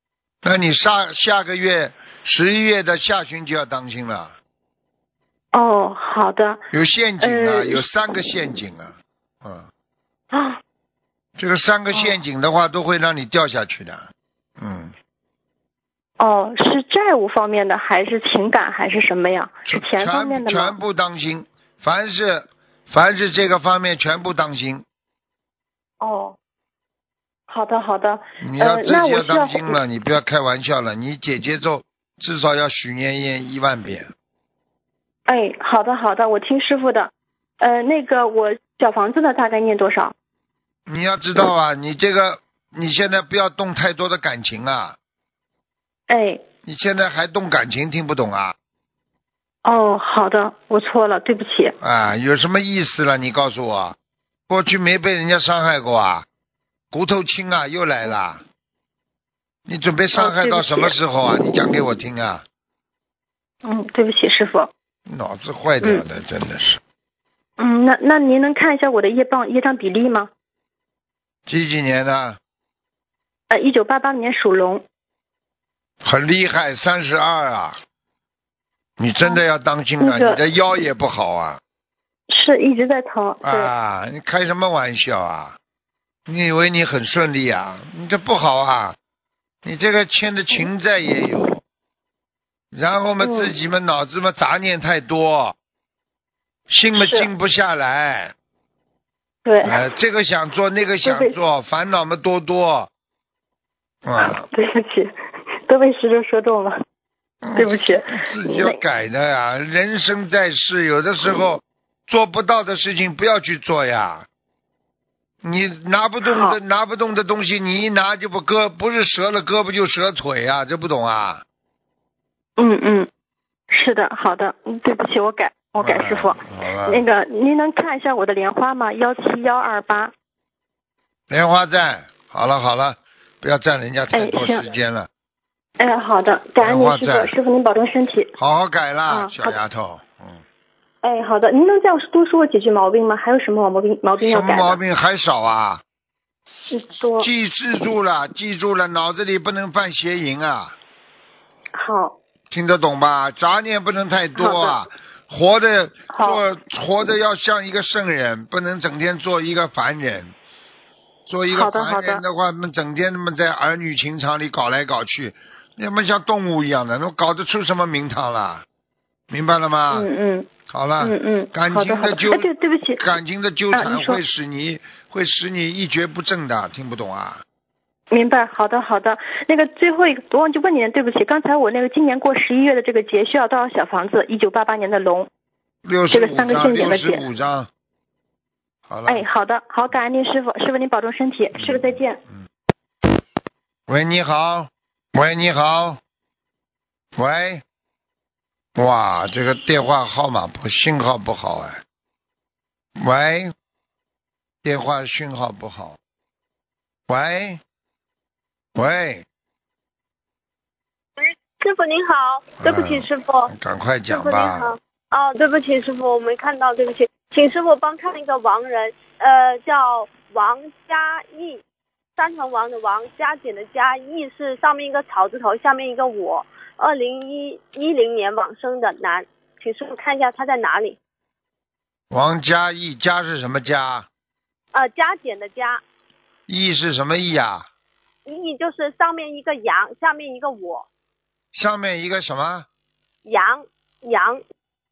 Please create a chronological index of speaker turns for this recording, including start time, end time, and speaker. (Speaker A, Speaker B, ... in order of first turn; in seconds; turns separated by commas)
Speaker A: 0.4-4.3, Speaker B: 5.5-6.6, Speaker A: 6.7-9.7, Speaker B: 7.2-7.8, Speaker B: 10.3-10.6, Speaker A: 11.4-14.9, Speaker B: 11.9-12.2, Speaker B: 16.2-20.8, Speaker A: 19.7-24.9, Speaker B: 26.0-26.4, Speaker B: 27.5-29.8, Speaker A: 28.4-34.1, Speaker B: 35.3-40.1, Speaker A: 40.9-45.0, Speaker B: 46.1-46.4, Speaker A: 46.6-48.6, Speaker B: 49.6-51.8, Speaker A: 51.8-54.0, Speaker A: 54.5-56.3, Speaker A: 56.9-58.4, Speaker A: 59.7-62.4, Speaker B: 60.1-61.0, Speaker B: 63.6-64.7, Speaker A: 65.1-66.8, Speaker B: 67.6-70.3, Speaker A: 71.5-72.4, Speaker B: 73.5-74.8, Speaker A: 76.0-77.8, Speaker A: 79.0-81.6, Speaker B: 80.0-80.4, Speaker B: 82.3-83.7, Speaker A: 83.4-85.6, Speaker A: 86.3-89.0, Speaker A: 89.6-91.6, Speaker A: 92.7-95.6, Speaker B: 93.2-93.5, Speaker A: 96.7-98.3, Speaker B: 96.9-97.3, Speaker B: 99.5-99.8, Speaker A: 99.6-102.9, Speaker B: 101.0-101.4, Speaker A: 104.0-104.4, Speaker B: 104.2-105.1, Speaker B: 105.7-106.8, Speaker A: 107.4-114.3, Speaker B: 107.6-108.8, Speaker A: 115.4-121.4, Speaker B: 116.2-116.6, Speaker B: 122.6-123.1, Speaker B: 123.7-130.1, Speaker A: 125.8-127.0, Speaker A: 131.3-135.1, Speaker B: 134.1-134.7, Speaker B: 135.8-138.3, Speaker A: 136.6-137.3, Speaker A: 138.4-140.4, Speaker B: 139.1-139.6, Speaker B: 141.0-144.8, Speaker A: 144.2-145.8, Speaker B: 146.7-147.3, Speaker A: 147.2-150.8, Speaker B: 151.7-152.2, Speaker A: 152.5-160.3, Speaker B: 154.4-154.8, Speaker B: 156.1-156.4, Speaker A: 161.3-168.7, Speaker B: 161.5-162.2, Speaker A: 169.3-170.1, Speaker B: 169.9-170.5, Speaker A: 170.7-177.4, Speaker B: 171.0-173.1, Speaker B: 173.7-174.2, Speaker B: 178.1-185.3, Speaker A: 185.8-187.7, Speaker B: 186.1-187.3, Speaker A: 188.9-189.2, Speaker B: 189.1-192.2, Speaker A: 191.6-191.9, Speaker A: 193.9-196.0, Speaker A: 197.2-197.6, Speaker A: 198.8-201.8, Speaker A: 203.0-203.5, Speaker A: 204.6-206.0, Speaker A: 207.1-207.6, Speaker A: 208.8-209.3, Speaker C: 211.2-213.5, Speaker A: 212.6-214.7, Speaker C: 214.1-221.6, Speaker C: 222.2-231.0, Speaker A: 232.1-234.1, Speaker C: 234.7-235.8, Speaker A: 236.5-237.7, Speaker C: 238.3-240.9, Speaker A: 241.5-242.7, Speaker C: 243.2-244.4